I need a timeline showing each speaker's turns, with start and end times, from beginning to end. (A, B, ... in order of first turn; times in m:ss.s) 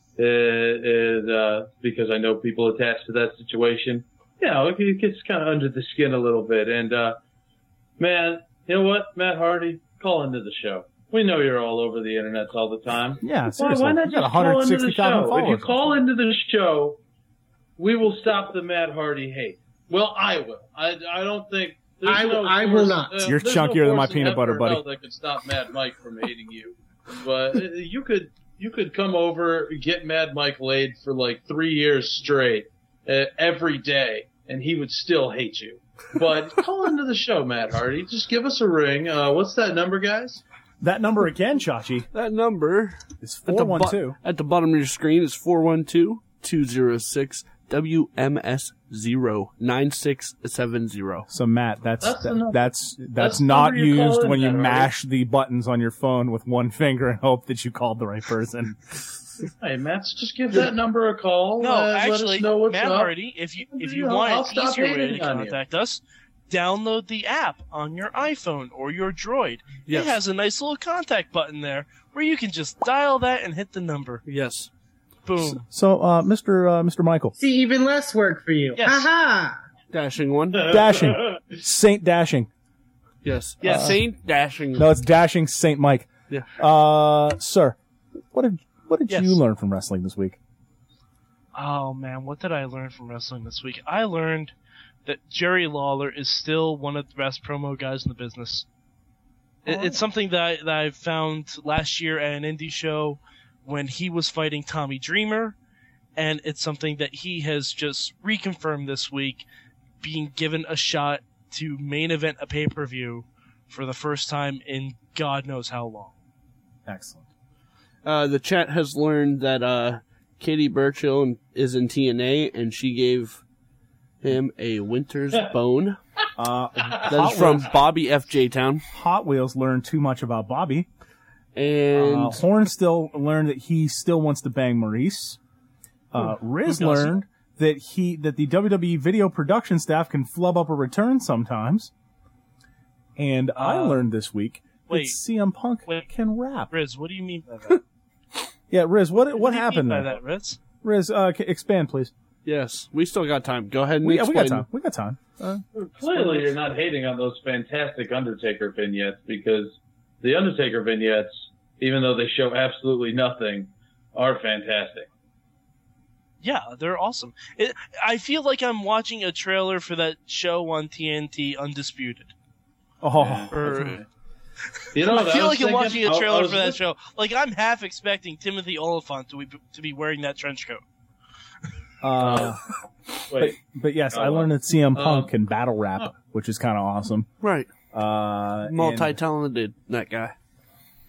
0:00.2-0:07.2 A
0:08.0-0:17.0 A
0:13.2-0:16.0 B
0:17.8-0:40.4 A
0:22.0-0:23.2 C
0:23.2-0:24.8 B
0:40.8-0:42.1 B
0:42.1-0:51.3 D
0:43.2-0:44.2 B
0:51.3-0:59.0 B
0:52.0-0:54.9 A
0:59.6-1:03.1 A
1:01.6-1:14.2 E
1:03.6-1:05.6 A
1:09.8-1:10.2 D
1:14.2-1:14.7 D
1:15.2-1:15.6 E
1:15.5-1:17.3 B
1:17.4-1:19.6 C
1:18.8-1:19.1 E
1:19.9-1:20.7 D
1:20.5-1:21.4 A
1:20.7-1:22.5 B
1:23.2-1:24.9 D
1:23.6-1:24.0 E
1:24.8-1:27.8 B
1:28.3-1:30.4 B
1:29.1-1:29.4 E
1:31.5-1:34.5 E
1:35.0-1:38.6 E
1:39.6-1:45.6 E
1:39.6-1:40.0 B
1:46.2-1:49.4 E
1:50.0-1:56.1 E
1:56.8-1:57.2 B
1:58.0-2:03.4 D
2:04.2-2:06.0 D
2:06.4-2:07.7 B
2:07.1-2:08.8 D
2:08.9-2:10.9 B
2:11.5-2:12.4 D
2:11.9-2:15.4 B
2:16.1-2:21.9 B
2:16.2-2:17.2 E
2:23.2-2:26.7 B
2:23.6-2:24.1 E
2:24.9-2:25.2 E
2:26.7-2:27.8 E
2:28.7-2:30.2 B
2:29.3-2:30.6 E
2:30.8-2:32.1 B
2:32.4-2:34.7 D
2:34.0-2:36.4 B
2:35.8-2:45.1 A
2:46.4-2:52.3 E
2:53.0-2:53.8 B
2:53.2-2:54.0 A
2:53.5-2:54.0 E
2:54.9-2:56.8 A
2:55.0-3:00.8 E
3:02.0-3:02.6 B
3:02.2-3:02.5 A
3:03.3-3:03.6 A
3:03.3-3:07.3 B
3:04.1-3:05.3 A
3:07.4-3:07.7 D
3:07.9-3:09.2 B
3:08.6-3:10.3 D